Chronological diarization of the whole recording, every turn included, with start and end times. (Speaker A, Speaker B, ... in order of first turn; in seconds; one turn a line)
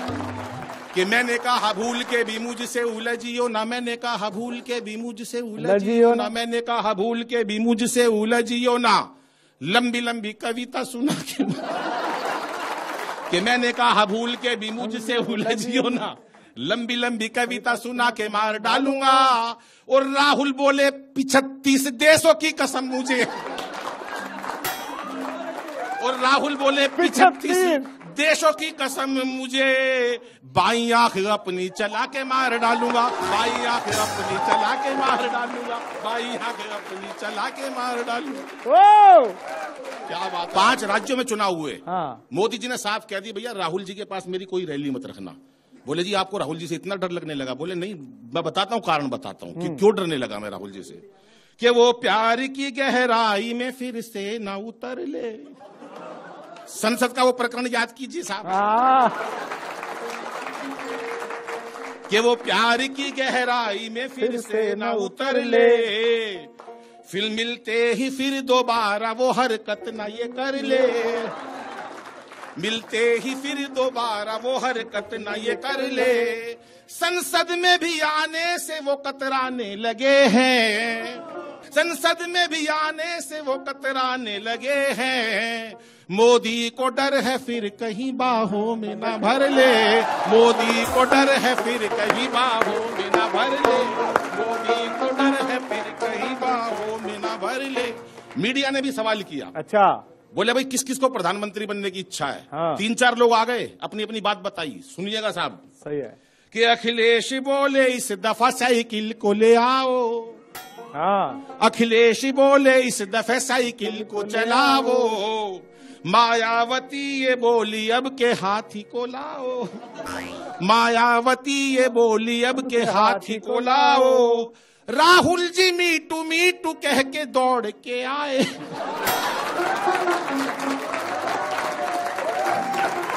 Speaker A: 0.9-9.1
Speaker B: 5.6-6.3
Speaker A: 9.6-11.8
Speaker A: 13.3-23.3
Speaker B: 14.9-16.0
Speaker B: 17.6-18.7
Speaker A: 26.0-38.5
Speaker B: 27.0-27.9
Speaker B: 38.6-39.4
Speaker A: 40.1-51.0
Speaker B: 41.9-42.2
Speaker B: 49.5-49.8
Speaker A: 51.6-55.5
Speaker A: 56.7-58.5
Speaker B: 58.4-59.2
Speaker A: 62.1-66.5
Speaker B: 64.2-65.9
Speaker A: 67.1-71.3
Speaker A: 72.6-99.5
Speaker B: 99.5-100.0
Speaker A: 100.3-105.6
Speaker B: 102.5-102.8
Speaker B: 105.8-106.2
Speaker A: 106.5-110.4
Speaker B: 110.9-111.4
Speaker A: 111.6-119.8
Speaker B: 113.9-115.1
Speaker A: 120.6-128.7
Speaker B: 122.7-124.4